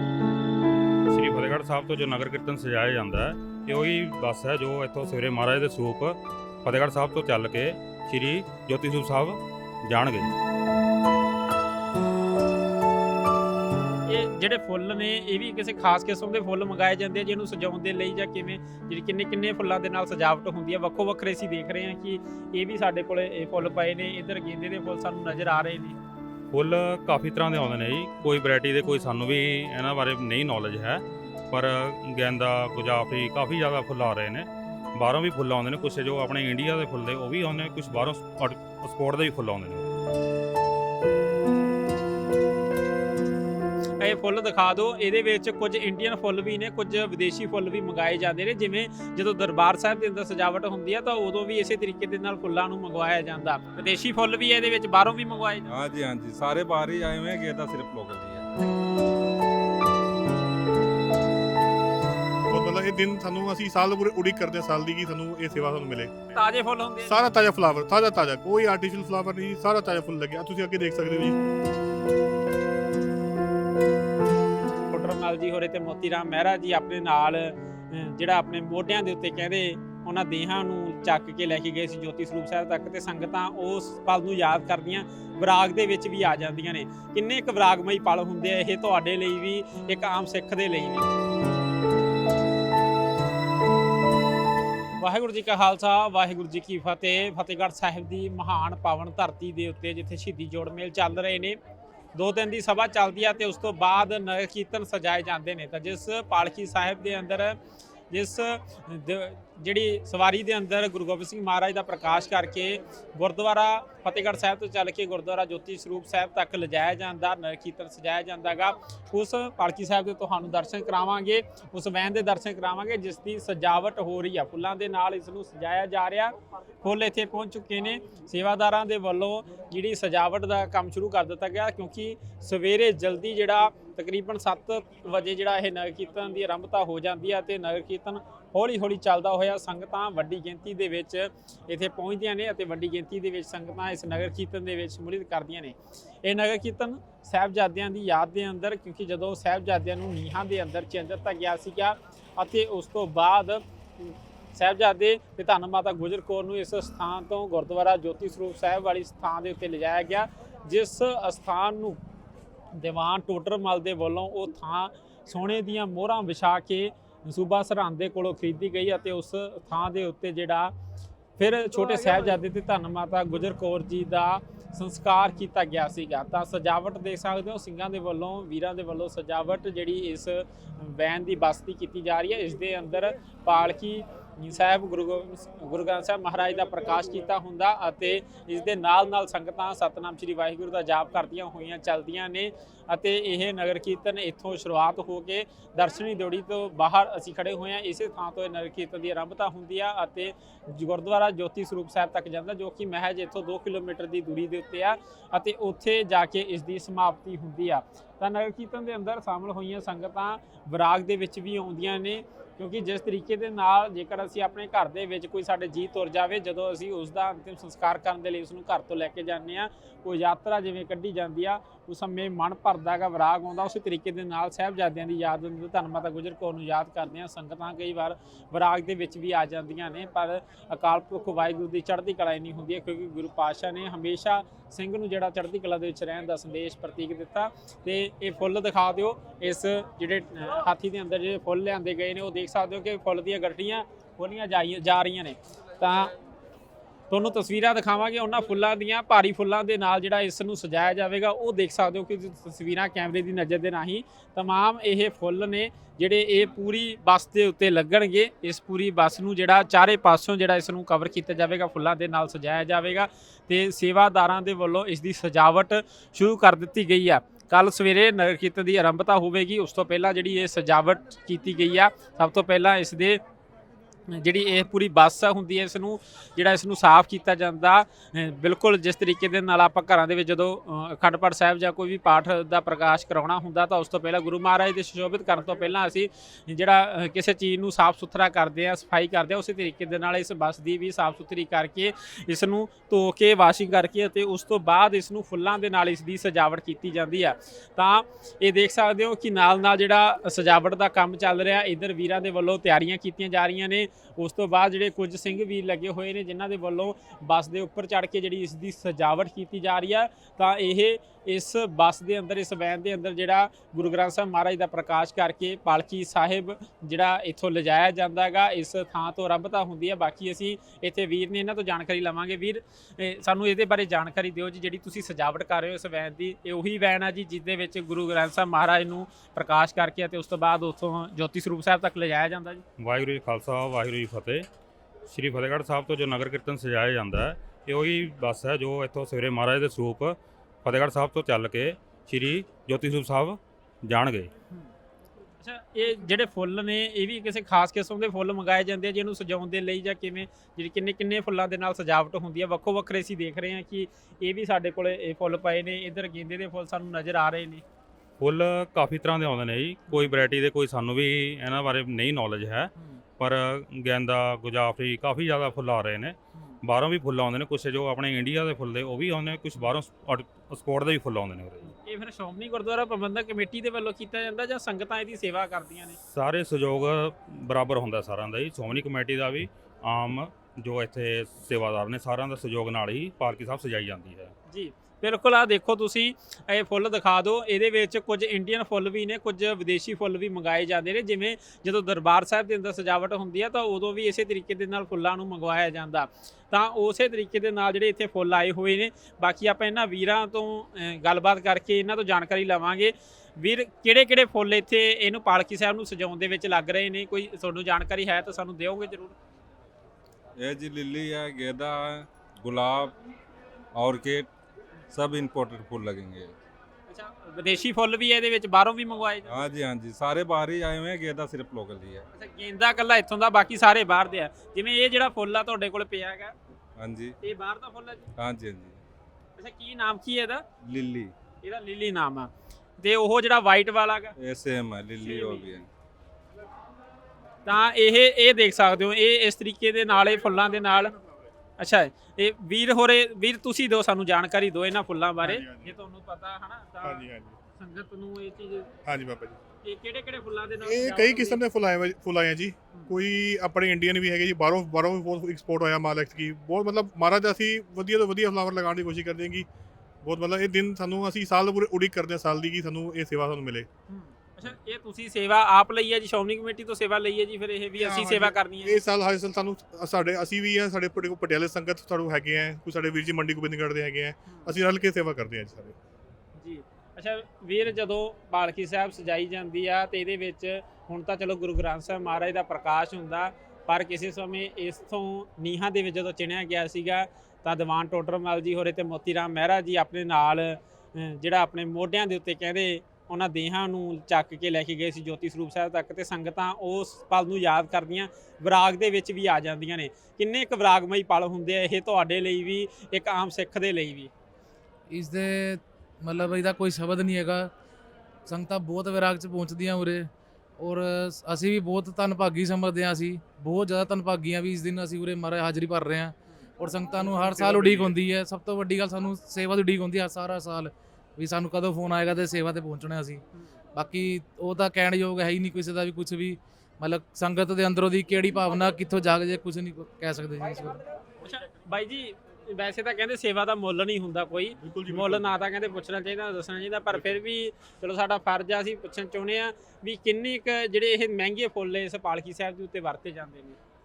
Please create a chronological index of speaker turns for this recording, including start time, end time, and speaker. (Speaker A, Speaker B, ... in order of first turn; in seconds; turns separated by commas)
Speaker A: 1.1-10.3, Speaker B: 14.1-26.0, Speaker A: 26.5-40.0, Speaker B: 44.0-55.7, Speaker C: 55.7-58.5, Speaker D: 62.5-66.2, Speaker B: 66.3-67.2, Speaker D: 67.0-71.4, Speaker B: 74.9-91.1, Speaker B: 95.0-101.6, Speaker B: 102.1-107.6, Speaker B: 108.1-162.0, Speaker B: 162.8-170.7, Speaker B: 171.4-246.1, Speaker B: 247.1-273.2, Speaker B: 274.1-332.6, Speaker A: 332.8-334.4, Speaker A: 335.1-344.3, Speaker B: 345.4-357.6, Speaker A: 358.2-371.8, Speaker B: 371.7-376.0, Speaker A: 376.0-384.3, Speaker B: 384.5-409.2, Speaker C: 410.4-412.9, Speaker C: 413.8-414.3, Speaker C: 414.9-416.4, Speaker B: 416.9-419.4, Speaker C: 419.2-422.1, Speaker B: 422.1-426.4, Speaker C: 426.8-427.2, Speaker B: 427.2-428.1, Speaker C: 428.2-428.8, Speaker B: 429.4-430.4, Speaker C: 430.6-431.1, Speaker B: 431.4-434.1, Speaker C: 434.2-435.7, Speaker B: 435.0-435.5, Speaker B: 437.4-440.9, Speaker B: 441.6-448.7, Speaker D: 445.2-445.8, Speaker D: 446.8-447.4, Speaker D: 448.9-449.4, Speaker B: 449.6-451.4, Speaker D: 450.6-459.5, Speaker D: 460.0-463.7, Speaker B: 463.9-468.8, Speaker D: 467.8-475.8, Speaker B: 474.3-474.5, Speaker B: 476.4-504.1, Speaker E: 504.9-507.5, Speaker E: 508.3-523.2, Speaker D: 517.1-517.9, Speaker E: 523.7-530.8, Speaker B: 531.2-543.6, Speaker D: 534.6-535.3